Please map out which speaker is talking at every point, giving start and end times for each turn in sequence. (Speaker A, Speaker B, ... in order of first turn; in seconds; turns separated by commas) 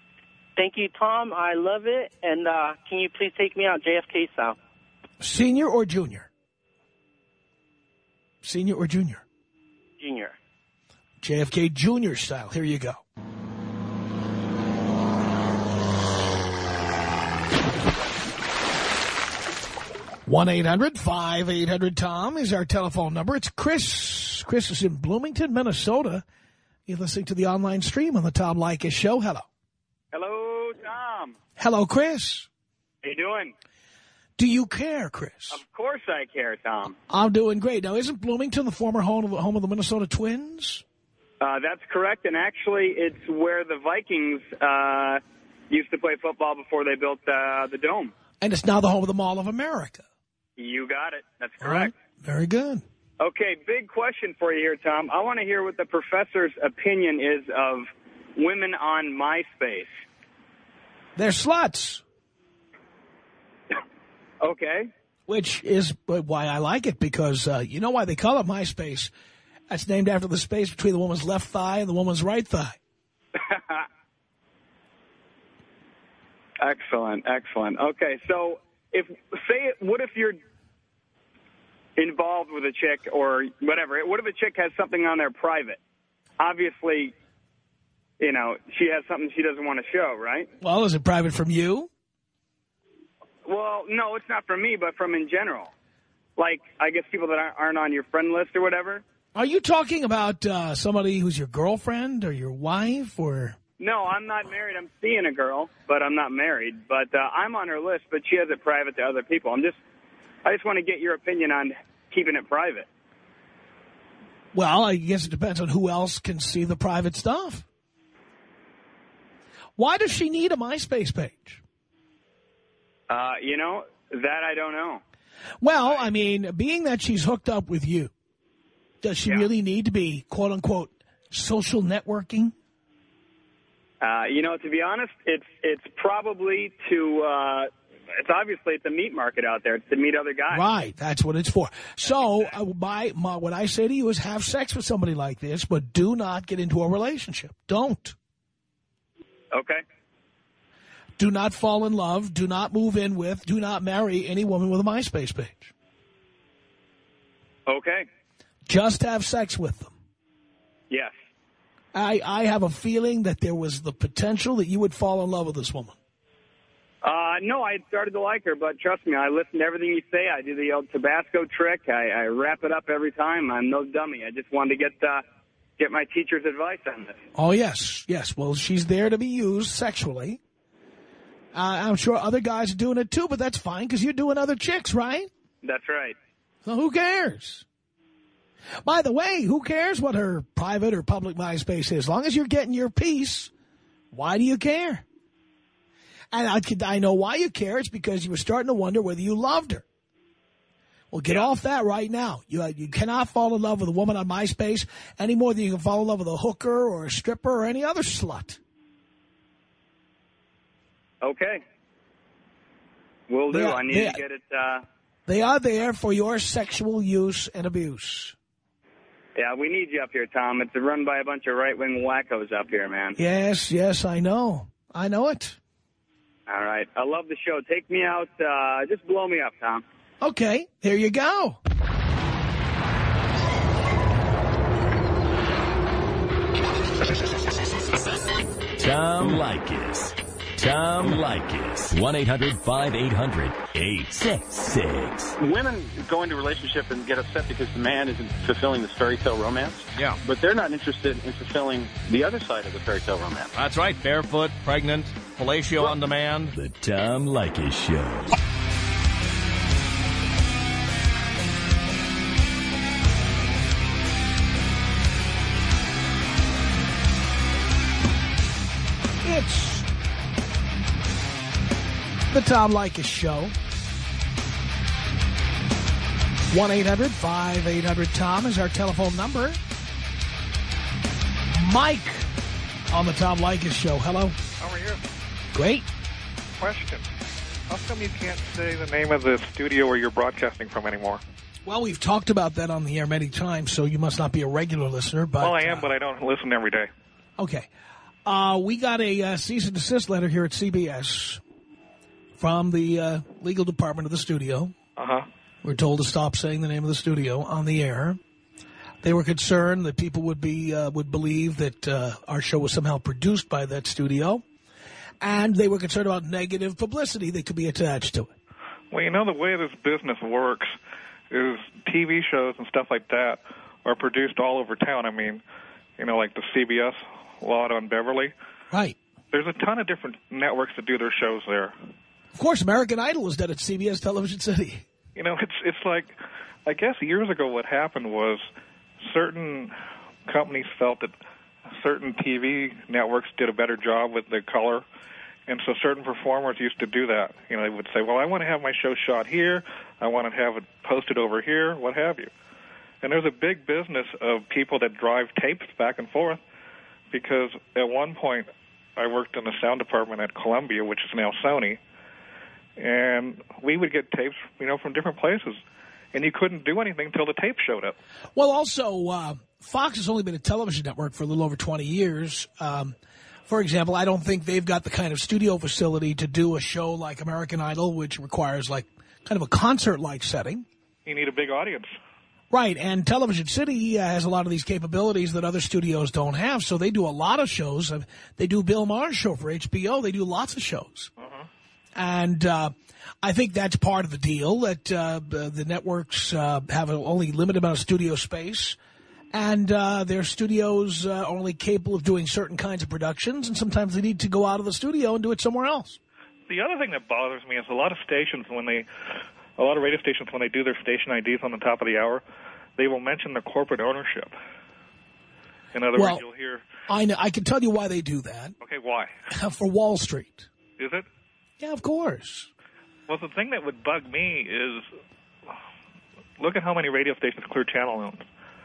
Speaker A: 0.6-4.6, Speaker B: 5.2-6.3, Speaker B: 8.4-9.2, Speaker A: 10.0-10.4, Speaker B: 11.2-13.0, Speaker B: 20.3-26.2, Speaker B: 26.9-29.5, Speaker C: 30.1-31.4, Speaker B: 31.6-32.5, Speaker C: 33.0-33.5, Speaker B: 34.4-35.6, Speaker C: 35.5-37.0, Speaker B: 37.1-40.8, Speaker C: 41.4-48.1, Speaker B: 48.4-50.0, Speaker C: 50.6-51.9, Speaker B: 51.6-52.8, Speaker C: 53.2-59.9, Speaker B: 61.2-62.0, Speaker C: 64.4-64.9, Speaker B: 65.3-69.1, Speaker B: 69.7-72.8, Speaker C: 73.4-73.9, Speaker C: 76.6-80.4, Speaker C: 82.0-85.8, Speaker C: 86.4-87.1, Speaker C: 88.2-90.5, Speaker B: 90.6-91.9, Speaker C: 93.5-95.7, Speaker C: 96.4-99.0, Speaker B: 99.3-103.6, Speaker C: 103.8-109.8, Speaker C: 110.5-112.9, Speaker B: 114.5-117.7, Speaker B: 119.8-121.6, Speaker C: 123.1-125.0, Speaker B: 125.6-128.1, Speaker B: 129.0-132.5, Speaker C: 134.0-140.6, Speaker B: 140.5-148.2, Speaker C: 142.1-142.5, Speaker C: 149.5-149.8, Speaker B: 151.2-155.7, Speaker C: 157.7-158.1, Speaker B: 158.7-159.9, Speaker B: 161.9-166.0, Speaker C: 167.0-175.2, Speaker C: 175.8-177.2, Speaker B: 177.3-180.4, Speaker B: 181.5-185.3, Speaker C: 185.6-186.2, Speaker B: 186.7-187.7, Speaker B: 188.8-193.5, Speaker B: 194.1-195.1, Speaker B: 196.3-199.8, Speaker B: 201.1-208.6, Speaker C: 211.2-211.6, Speaker C: 213.3-214.8, Speaker B: 213.5-214.2, Speaker B: 215.3-218.3, Speaker C: 219.4-223.2, Speaker B: 223.2-225.6, Speaker C: 226.5-229.8, Speaker B: 230.2-231.6, Speaker D: 238.8-245.3, Speaker E: 245.4-253.6, Speaker F: 249.9-250.2, Speaker F: 253.5-256.5, Speaker D: 256.5-258.3, Speaker B: 269.2-269.9, Speaker B: 272.3-273.6, Speaker B: 276.5-279.6, Speaker B: 281.5-282.3, Speaker B: 282.9-284.4, Speaker G: 284.6-285.0, Speaker B: 285.5-285.9, Speaker G: 286.6-287.1, Speaker G: 287.7-291.2, Speaker B: 291.6-295.9, Speaker G: 295.4-296.9, Speaker B: 297.4-297.7, Speaker B: 298.2-301.4, Speaker B: 302.4-304.8, Speaker G: 305.0-305.3, Speaker B: 305.6-308.2, Speaker B: 309.0-314.4, Speaker B: 315.2-318.3, Speaker G: 318.9-320.8, Speaker G: 321.3-325.4, Speaker G: 326.0-328.3, Speaker B: 328.7-329.0, Speaker G: 329.3-331.8, Speaker B: 332.3-334.9, Speaker G: 335.1-338.4, Speaker G: 339.1-339.7, Speaker G: 340.3-341.1, Speaker G: 341.8-344.9, Speaker G: 345.5-352.3, Speaker G: 353.0-356.4, Speaker G: 357.1-361.8, Speaker G: 362.8-365.6, Speaker G: 366.1-368.0, Speaker B: 368.4-373.0, Speaker B: 373.5-380.7, Speaker G: 381.1-381.9, Speaker B: 382.5-391.1, Speaker G: 391.2-391.5, Speaker B: 391.9-398.8, Speaker B: 399.3-406.0, Speaker G: 406.5-408.9, Speaker G: 409.6-412.2, Speaker G: 412.8-414.4, Speaker G: 415.7-416.7, Speaker B: 415.9-416.2, Speaker B: 416.9-418.6, Speaker G: 418.6-419.1, Speaker B: 419.3-420.5, Speaker G: 420.8-421.1, Speaker B: 421.6-422.5, Speaker G: 423.1-424.9, Speaker G: 426.4-428.3